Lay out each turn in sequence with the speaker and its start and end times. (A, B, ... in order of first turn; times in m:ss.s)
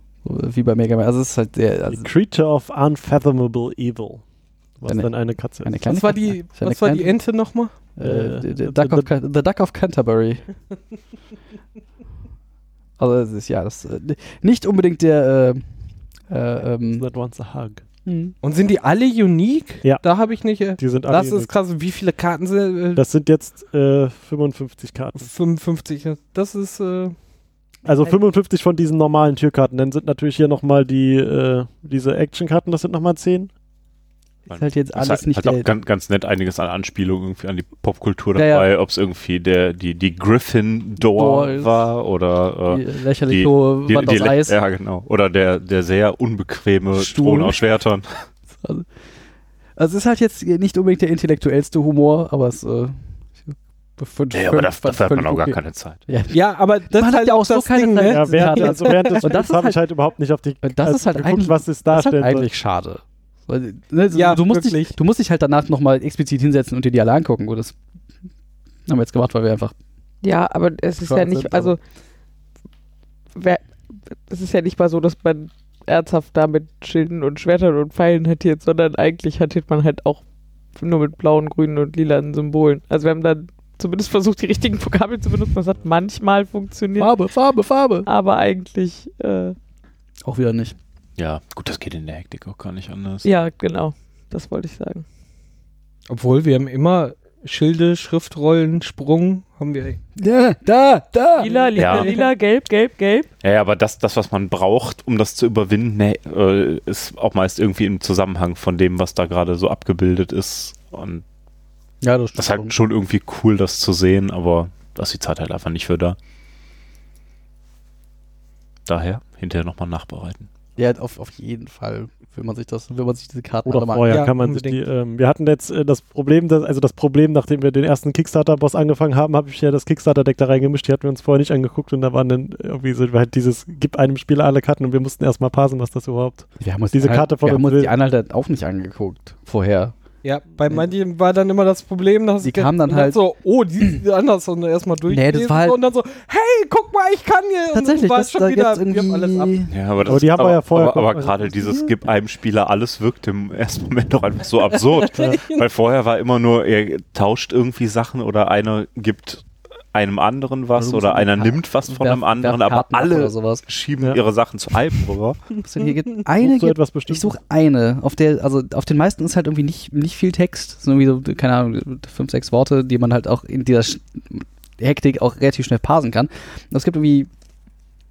0:00.2-0:02.1 A
0:01.9-0:04.2 B
0:04.8-0:05.7 B
0:04.9-0:07.2 A
0:05.9-0:07.8 C
0:08.0-0:10.4 A
0:08.0-0:09.1 B
0:13.0-0:15.7 A
0:16.3-0:17.1 A
0:16.9-0:17.8 B
0:18.0-0:18.4 A
0:18.4-0:23.0 C
0:20.8-0:21.5 B
0:23.0-0:25.3 B
0:25.2-0:27.2 C
0:27.8-0:33.5 B
0:34.5-0:48.2 D
0:34.5-0:35.7 A
0:38.4-0:38.7 A
0:41.1-0:41.8 A
0:42.7-0:44.6 A
0:47.0-0:47.6 A
0:48.6-0:48.9 A
0:49.8-0:59.8 A
0:54.3-0:56.0 D
0:56.3-0:59.3 C
0:58.1-1:02.5 B
1:00.6-1:07.8 A
1:04.1-1:05.0 C
1:08.9-1:09.8 A
1:10.2-1:11.8 E
1:11.0-1:11.8 A
1:13.4-1:20.2 E
1:20.7-1:27.1 E
1:27.0-1:28.1 A
1:28.0-1:29.6 E
1:30.2-1:30.8 A
1:31.2-1:33.3 D
1:33.2-1:35.0 E
1:36.1-1:40.0 C
1:40.2-1:41.5 A
1:41.4-1:42.3 C
1:41.4-1:43.3 E
1:41.8-1:42.1 D
1:43.4-1:51.2 D
1:52.0-1:52.8 A
1:52.4-1:56.2 D
1:58.9-2:00.5 D
2:00.8-2:04.2 A
2:03.7-2:17.9 B
2:04.1-2:04.8 C
2:16.6-2:19.9 A
2:20.2-2:29.6 C
2:22.4-2:23.2 A
2:25.1-2:25.8 A
2:27.7-2:29.7 A
2:29.7-2:45.4 D
2:30.1-2:31.4 B
2:31.5-2:31.9 A
2:35.0-2:35.6 C
2:40.8-2:43.6 A
2:45.6-2:57.3 A
2:46.4-2:47.3 B